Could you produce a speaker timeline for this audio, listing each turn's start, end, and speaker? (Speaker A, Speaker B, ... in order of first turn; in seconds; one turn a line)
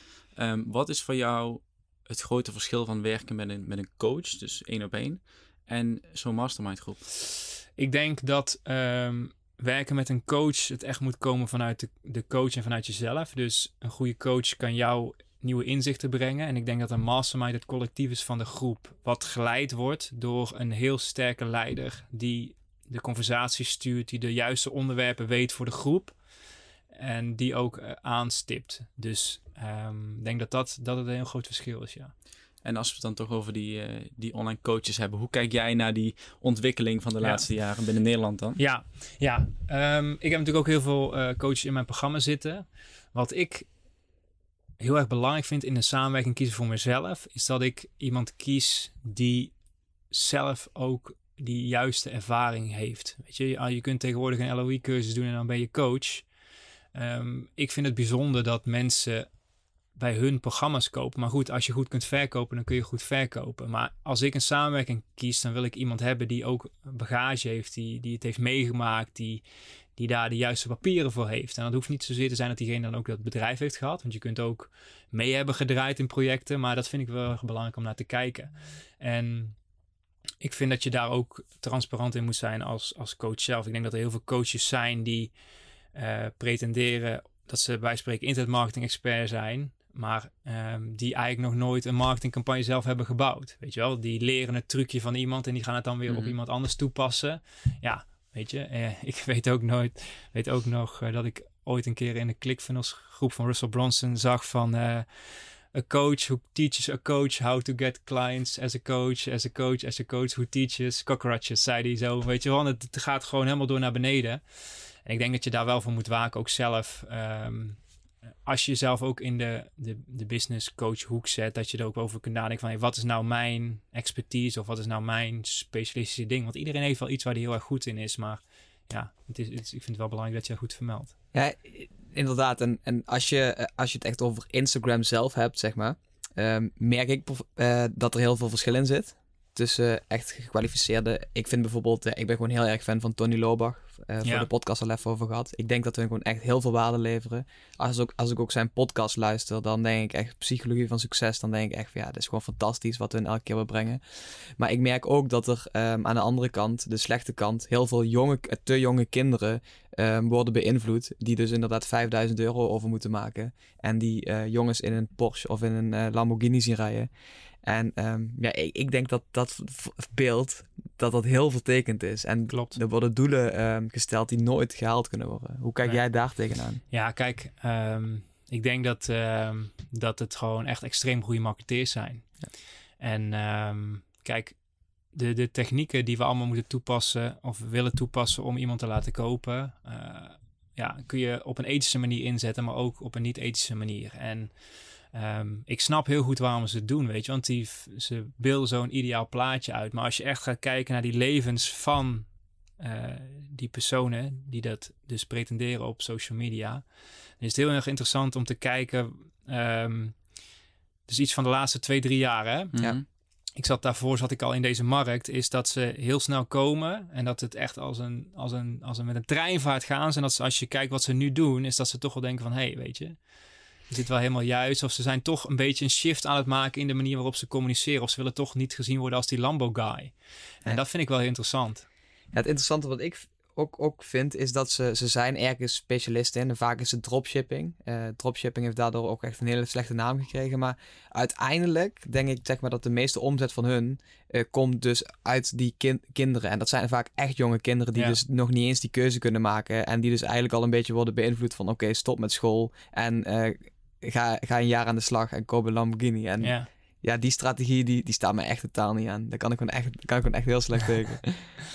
Speaker A: 0.3-7.1
Speaker B: 7.8-26.1
Speaker B: 26.9-32.1
Speaker A: 32.6-38.6
Speaker B: 38.6-43.7
Speaker B: 44.8-49.5
Speaker B: 50.1-56.2
Speaker B: 56.9-59.3
Speaker B: 60.0-69.4
Speaker B: 70.0-79.5
Speaker B: 80.4-85.3
Speaker B: 85.9-105.1
Speaker A: 96.1-96.3
Speaker B: 105.7-114.4
Speaker B: 115.0-117.8
Speaker B: 118.5-131.1
Speaker C: 131.3-167.1
Speaker C: 167.6-176.8
Speaker B: 172.5-172.8
Speaker B: 176.9-182.2
Speaker B: 183.0-184.6
Speaker B: 185.1-194.5
Speaker B: 195.1-202.3
Speaker B: 202.8-206.8
Speaker B: 207.4-210.2
Speaker B: 211.1-212.7
Speaker A: 212.7-213.0
Speaker B: 213.6-223.2
Speaker B: 223.9-230.1
Speaker B: 230.6-231.8
Speaker C: 232.3-261.5
Speaker B: 256.4-256.7